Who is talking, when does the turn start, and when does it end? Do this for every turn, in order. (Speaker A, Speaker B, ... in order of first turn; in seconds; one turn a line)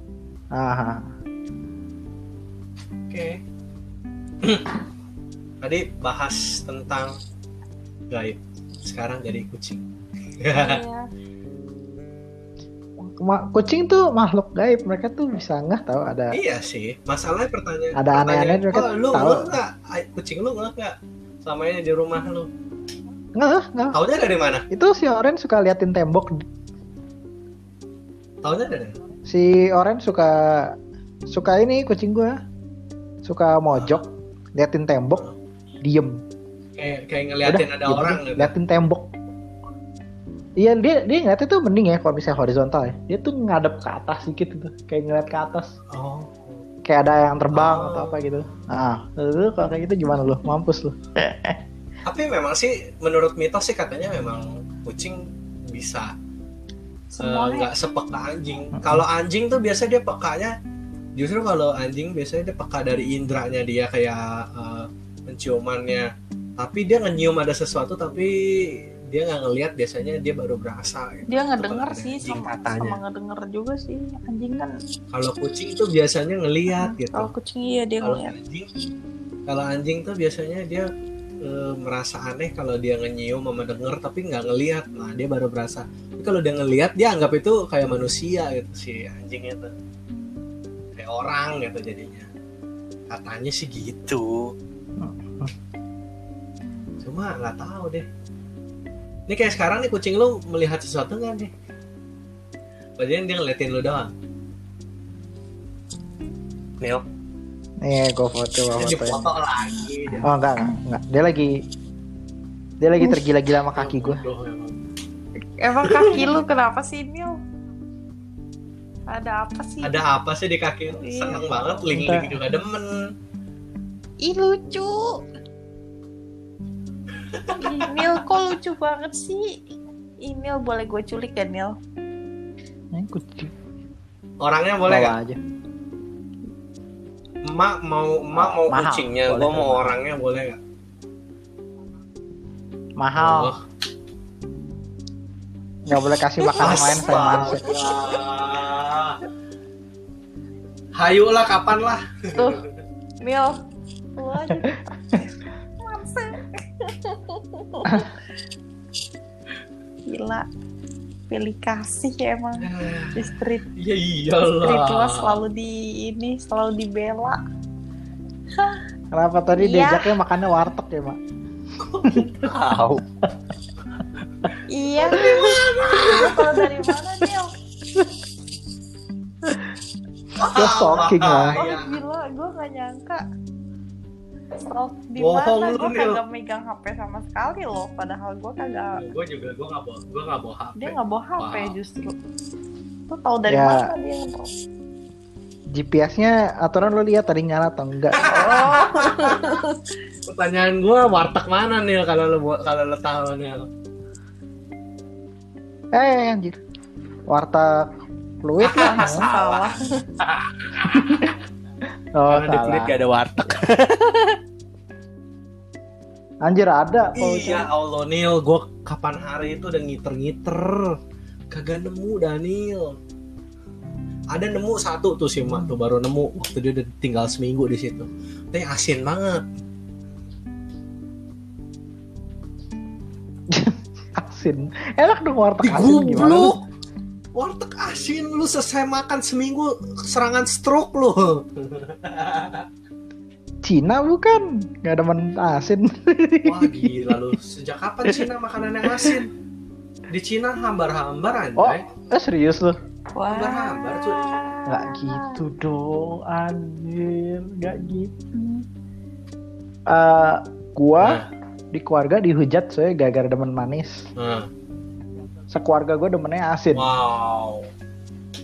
Speaker A: 0.6-1.1
Speaker B: 3.1-3.4
Speaker B: 4.4-4.7
Speaker B: 5.6-7.2
Speaker B: 8.1-9.8
Speaker B: 10.4-10.8
Speaker C: 10.5-11.1
Speaker A: 13.0-16.4
Speaker B: 16.3-22.5
Speaker A: 17.9-19.6
Speaker A: 23.4-24.0
Speaker B: 23.9-24.6
Speaker A: 24.7-26.3
Speaker B: 28.4-29.0
Speaker A: 29.3-30.8
Speaker A: 31.3-32.4
Speaker A: 33.2-35.3
Speaker B: 33.7-34.0
Speaker A: 35.8-36.2
Speaker B: 36.8-38.5
Speaker A: 37.5-39.1
Speaker A: 40.6-45.7
Speaker B: 45.9-46.6
Speaker A: 46.9-51.6
Speaker B: 47.5-48.2
Speaker B: 52.0-56.1
Speaker C: 57.1-57.7
Speaker B: 57.2-60.5
Speaker A: 58.7-59.1
Speaker B: 61.2-73.0
Speaker C: 71.3-74.7
Speaker B: 75.1-77.3
Speaker C: 76.7-78.3
Speaker B: 78.0-78.7
Speaker B: 79.5-80.9
Speaker B: 81.4-89.7
Speaker C: 90.1-90.4
Speaker B: 91.0-92.3
Speaker B: 93.1-94.5
Speaker A: 95.0-95.5
Speaker C: 96.7-97.0
Speaker B: 97.0-98.1
Speaker B: 99.3-101.5
Speaker B: 103.0-104.1
Speaker A: 107.8-109.3
Speaker B: 108.7-110.3
Speaker A: 110.2-111.6
Speaker A: 112.8-114.2
Speaker B: 113.8-114.8
Speaker C: 115.4-117.4
Speaker B: 115.8-116.3
Speaker C: 119.1-120.0
Speaker B: 119.8-123.1
Speaker C: 120.9-121.9
Speaker A: 121.9-122.4
Speaker C: 124.2-125.2
Speaker B: 127.3-128.2
Speaker C: 127.6-129.7
Speaker C: 130.2-131.8
Speaker A: 132.9-133.5
Speaker B: 134.4-135.2
Speaker A: 134.9-135.4
Speaker B: 137.4-140.6
Speaker A: 138.3-140.0
Speaker A: 143.0-143.6
Speaker B: 143.2-143.6
Speaker A: 145.9-147.7
Speaker B: 146.6-149.2
Speaker B: 151.0-152.5
Speaker C: 152.3-152.6
Speaker C: 153.2-153.6
Speaker C: 154.2-158.1
Speaker C: 160.1-160.5
Speaker C: 161.3-163.7
Speaker B: 162.6-165.4
Speaker C: 164.5-167.4
Speaker C: 168.6-168.8
Speaker A: 169.1-171.2
Speaker C: 169.6-170.2
Speaker B: 171.8-173.0
Speaker A: 172.0-172.5
Speaker C: 174.7-177.5
Speaker B: 175.1-176.6
Speaker A: 175.1-176.9
Speaker B: 180.4-182.0
Speaker A: 180.4-181.6
Speaker C: 181.6-183.2
Speaker C: 184.6-189.0
Speaker B: 185.2-186.2
Speaker B: 189.0-191.8
Speaker C: 190.8-192.2
Speaker C: 193.1-194.5
Speaker A: 193.5-193.9
Speaker A: 195.7-198.8
Speaker B: 198.2-199.6
Speaker C: 198.2-199.8
Speaker B: 200.3-203.7
Speaker A: 205.9-206.6
Speaker A: 207.3-207.9
Speaker A: 208.4-209.3
Speaker B: 208.6-211.0
Speaker C: 208.8-210.0
Speaker A: 211.0-211.3
Speaker A: 212.2-212.9
Speaker B: 212.3-214.4
Speaker A: 216.4-217.7
Speaker B: 217.2-221.0
Speaker B: 221.5-223.0
Speaker B: 224.3-229.4
Speaker A: 233.5-236.6
Speaker B: 235.6-236.6
Speaker B: 237.4-242.7
Speaker A: 243.7-247.2
Speaker B: 246.4-249.3
Speaker A: 248.8-249.2
Speaker B: 250.1-251.8
Speaker A: 251.6-252.8
Speaker C: 253.2-255.4
Speaker B: 253.3-254.3
Speaker A: 254.7-258.1
Speaker C: 258.3-258.7
Speaker A: 259.9-264.1
Speaker B: 261.0-261.3
Speaker B: 264.2-264.5
Speaker A: 265.5-266.9
Speaker B: 266.7-267.7